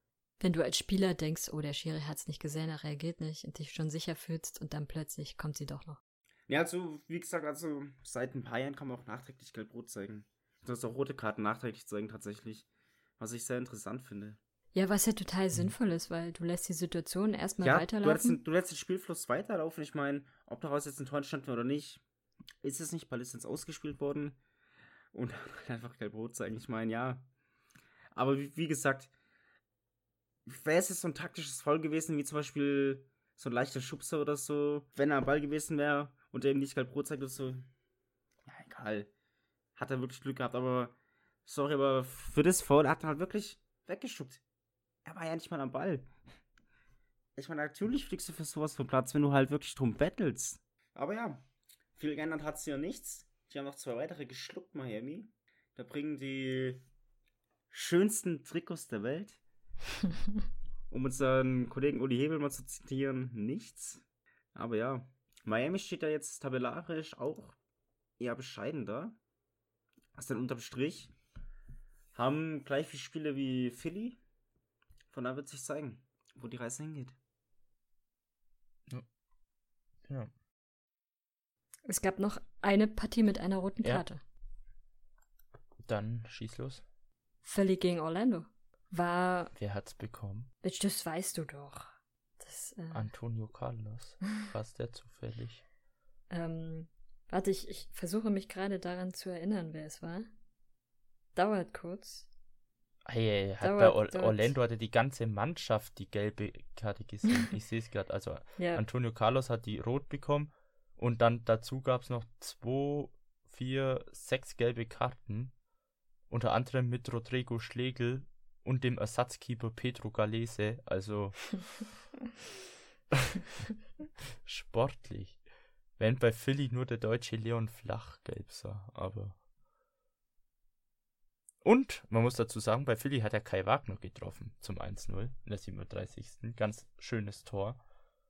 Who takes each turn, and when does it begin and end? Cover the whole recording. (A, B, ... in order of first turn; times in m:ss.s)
0:00.4-0:06.0 A
0:06.5-0:12.7 B
0:13.2-0:14.4 B
0:14.7-0:18.4 A
0:17.6-0:22.0 B
0:22.6-0:24.4 B
0:25.1-0:27.3 B
0:28.1-0:29.1 B
0:30.4-0:37.7 B
0:38.4-0:39.1 B
0:39.8-0:40.9 B
0:41.4-0:44.4 B
0:45.0-0:46.1 B
0:47.4-0:56.8 B
0:57.7-0:59.4 B
1:00.9-1:07.6 B
1:08.2-1:09.2 B
1:10.1-1:11.1 B
1:12.1-1:14.2 B
1:15.1-1:17.2 B
1:21.9-1:24.2 A
1:25.8-1:26.8 C
1:27.4-1:29.5 A
1:29.6-1:30.5 C
1:30.6-1:33.1 A
1:32.9-1:35.6 C
1:36.3-1:40.3 A
1:41.3-1:42.3 A
1:43.0-1:55.5 C
1:43.6-1:44.5 A
1:48.6-1:48.8 A
1:56.3-2:01.8 C
2:03.1-2:03.4 C
2:04.4-2:05.4 C
2:06.0-2:09.4 C
2:11.6-2:17.8 C